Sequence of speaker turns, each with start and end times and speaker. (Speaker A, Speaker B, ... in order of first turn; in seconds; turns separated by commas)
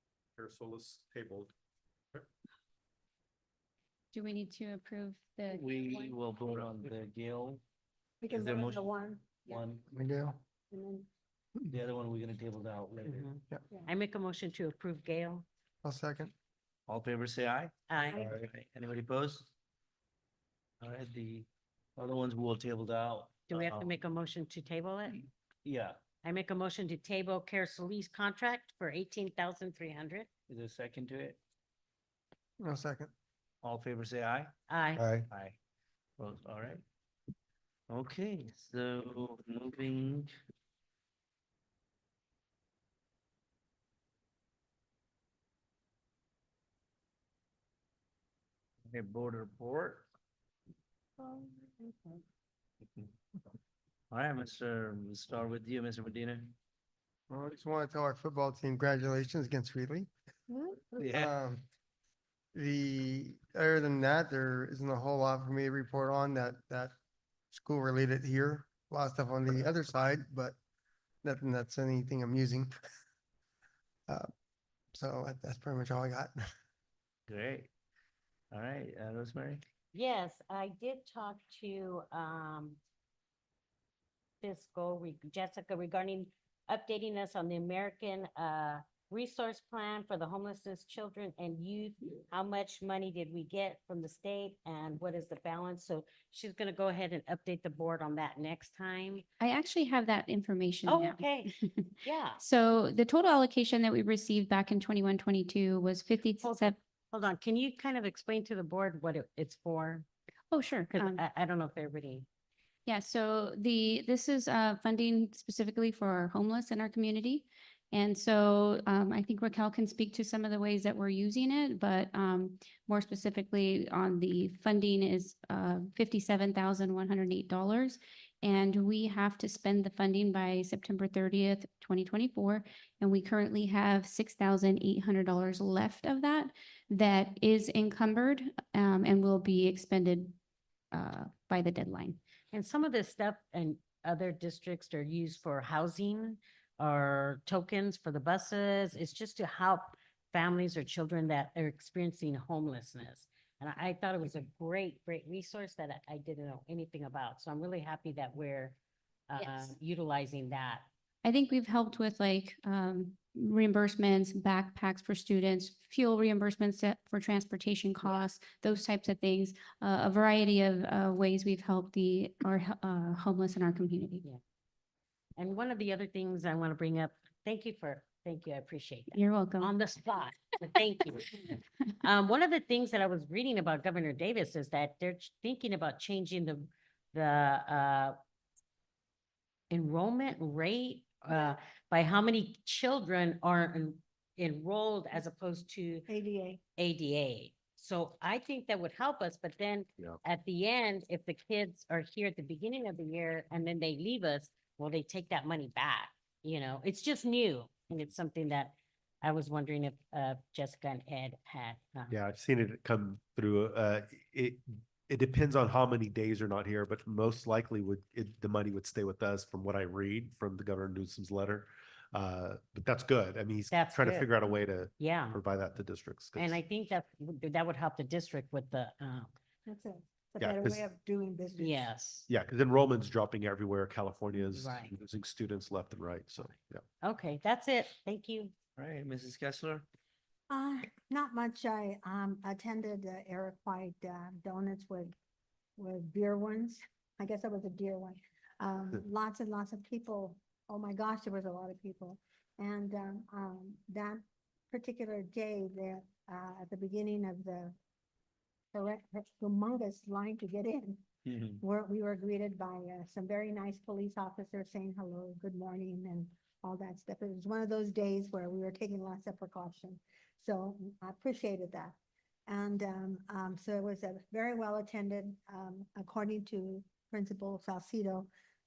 Speaker A: 0.4-1.5, Speaker B: 4.1-6.0, Speaker C: 5.5-7.6, Speaker D: 8.2-9.6, Speaker C: 8.3-8.9, Speaker C: 9.5-9.8, Speaker E: 9.9-10.4, Speaker D: 10.7-11.1, Speaker C: 11.7-13.3, Speaker F: 13.0-15.4, Speaker E: 15.8-16.3, Speaker C: 16.9-19.5, Speaker F: 17.9-18.2, Speaker D: 18.1-18.4, Speaker C: 20.8-23.9, Speaker F: 23.5-25.2, Speaker C: 25.6-26.0, Speaker F: 26.2-30.3, Speaker C: 30.5-31.4, Speaker E: 32.6-33.1, Speaker C: 33.6-34.5, Speaker F: 34.7-35.0, Speaker A: 35.0-35.3, Speaker C: 35.3-35.6, Speaker C: 36.2-36.8, Speaker C: 37.9-40.3, Speaker C: 48.9-50.1, Speaker D: 51.2-52.2, Speaker C: 54.1-56.5, Speaker E: 57.3-60.1, Speaker D: 60.5-61.0, Speaker C: 61.0-61.3, Speaker E: 61.1-61.6, Speaker E: 62.5-66.9, Speaker E: 67.5-70.6, Speaker E: 71.2-72.7, Speaker E: 74.9-76.4, Speaker C: 77.3-77.7, Speaker C: 78.5-79.6, Speaker F: 79.9-82.8, Speaker F: 84.4-99.2, Speaker B: 99.4-106.8, Speaker F: 100.9-101.5, Speaker F: 102.0-102.4, Speaker F: 106.4-110.1, Speaker B: 110.5-111.2, Speaker F: 110.9-112.3, Speaker B: 112.9-140.4, Speaker B: 140.9-142.2, Speaker F: 142.5-158.8, Speaker F: 159.3-160.9, Speaker B: 161.2-174.2, Speaker F: 175.4-181.4, Speaker B: 179.1-179.8, Speaker F: 182.0-188.2, Speaker F: 189.7-196.1, Speaker D: 191.3-191.6, Speaker D: 196.1-196.6, Speaker F: 196.8-212.2, Speaker A: 212.1-226.6, Speaker F: 223.7-224.3, Speaker F: 225.0-225.4, Speaker F: 226.3-229.3, Speaker D: 229.7-231.9, Speaker A: 230.4-230.8, Speaker F: 231.6-232.3, Speaker A: 232.3-236.8, Speaker F: 234.5-234.9, Speaker F: 237.0-238.5, Speaker C: 238.8-239.8, Speaker D: 240.5-245.1, Speaker D: 245.8-257.8, Speaker D: 258.7-261.0, Speaker C: 261.3-261.6, Speaker D: 261.6-272.0, Speaker D: 272.5-278.3